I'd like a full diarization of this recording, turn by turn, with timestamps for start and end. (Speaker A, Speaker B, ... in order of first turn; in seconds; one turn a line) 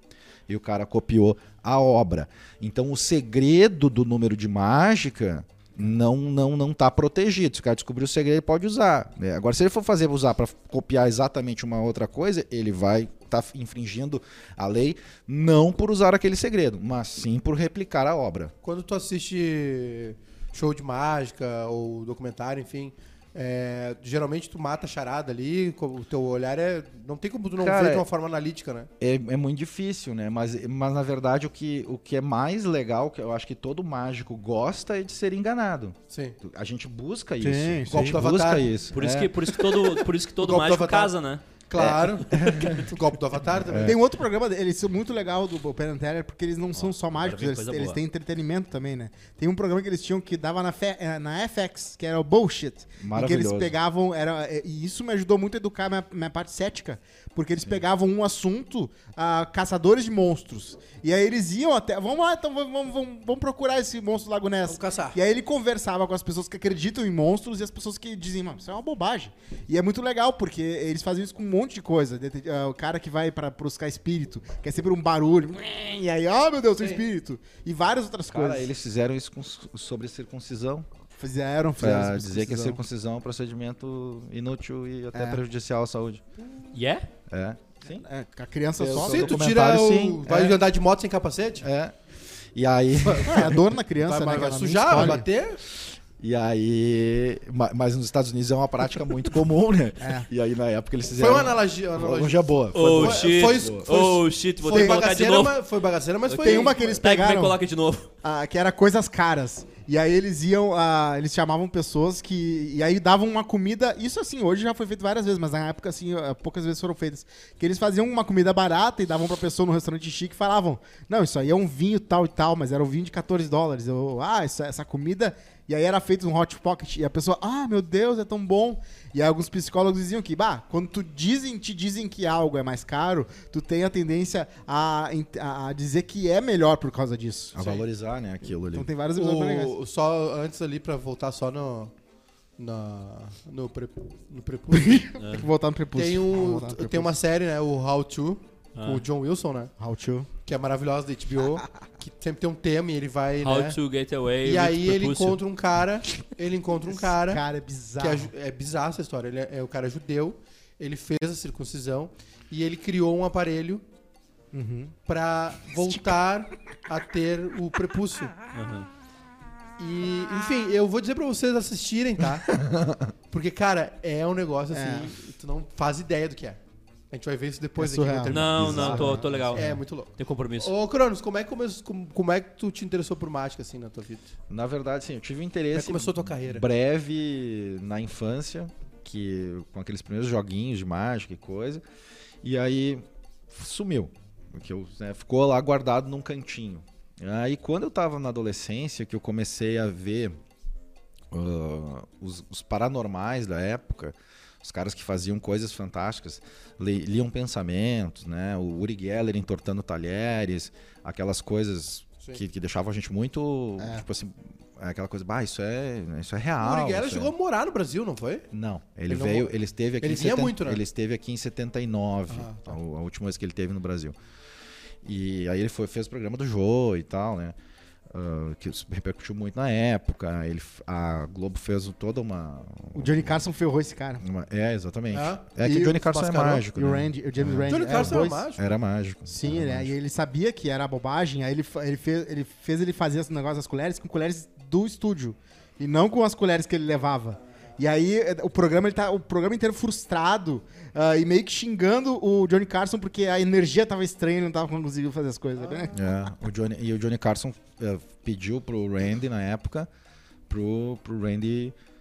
Speaker A: 0.5-18.5
Speaker B: 18.6-28.9
Speaker A: 27.6-28.1
Speaker A: 29.0-39.8
Speaker B: 36.1-36.4
Speaker C: 37.4-38.2
Speaker B: 37.9-38.8
Speaker D: 38.9-41.4
Speaker B: 40.4-41.1
Speaker B: 41.7-44.0
Speaker A: 41.7-42.9
Speaker A: 43.6-44.0
Speaker C: 43.8-78.7
Speaker D: 46.8-48.0
Speaker A: 53.0-53.8
Speaker B: 64.7-65.2
Speaker A: 78.3-80.9
Speaker C: 81.2-82.8
Speaker A: 81.8-86.2
Speaker C: 85.1-85.4
Speaker D: 86.7-87.1
Speaker A: 87.3-88.0
Speaker C: 87.9-89.4
Speaker A: 88.8-90.6
Speaker B: 88.8-91.7
Speaker A: 91.6-92.0
Speaker A: 92.5-93.5
Speaker B: 93.0-95.6
Speaker C: 93.2-95.3
Speaker A: 94.9-95.2
Speaker A: 95.8-103.9
Speaker C: 100.0-100.3
Speaker B: 101.2-107.0
Speaker D: 102.7-105.6
Speaker C: 106.3-107.6
Speaker D: 106.9-108.1
Speaker C: 108.2-137.6
Speaker A: 137.5-138.9
Speaker B: 137.6-137.8
Speaker C: 138.7-139.8
Speaker B: 139.1-141.9
Speaker B: 142.6-145.2
Speaker C: 144.7-147.1
Speaker D: 145.2-145.5
Speaker B: 145.9-149.7
Speaker D: 148.8-149.0
Speaker C: 149.8-150.3
Speaker B: 150.5-153.8
Speaker D: 153.4-155.4
Speaker B: 154.4-157.4
Speaker C: 156.9-158.3
Speaker B: 158.0-163.8
Speaker C: 164.5-164.9
Speaker B: 165.1-168.3
Speaker D: 168.5-168.9
Speaker B: 169.8-172.6
Speaker A: 172.6-173.0
Speaker B: 173.3-176.6
Speaker C: 174.7-175.1
Speaker B: 177.1-184.3
Speaker C: 177.8-179.8
Speaker D: 178.3-180.7
Speaker A: 184.5-191.8
Speaker B: 185.7-186.7
Speaker A: 192.4-200.4
Speaker A: 201.3-217.3
Speaker C: 213.8-214.0
Speaker B: 216.6-218.5
Speaker A: 218.5-224.2
Speaker B: 219.1-220.8
Speaker B: 222.3-222.7
Speaker A: 225.0-227.6
Speaker A: 228.1-233.4
Speaker C: 232.9-234.2
Speaker A: 234.2-239.9
Speaker B: 235.1-236.7
Speaker C: 235.6-236.0
Speaker C: 236.7-238.5
Speaker B: 237.7-238.7
Speaker C: 239.3-256.1
Speaker B: 255.6-255.9
Speaker A: 255.9-259.9
Speaker A: 260.5-261.8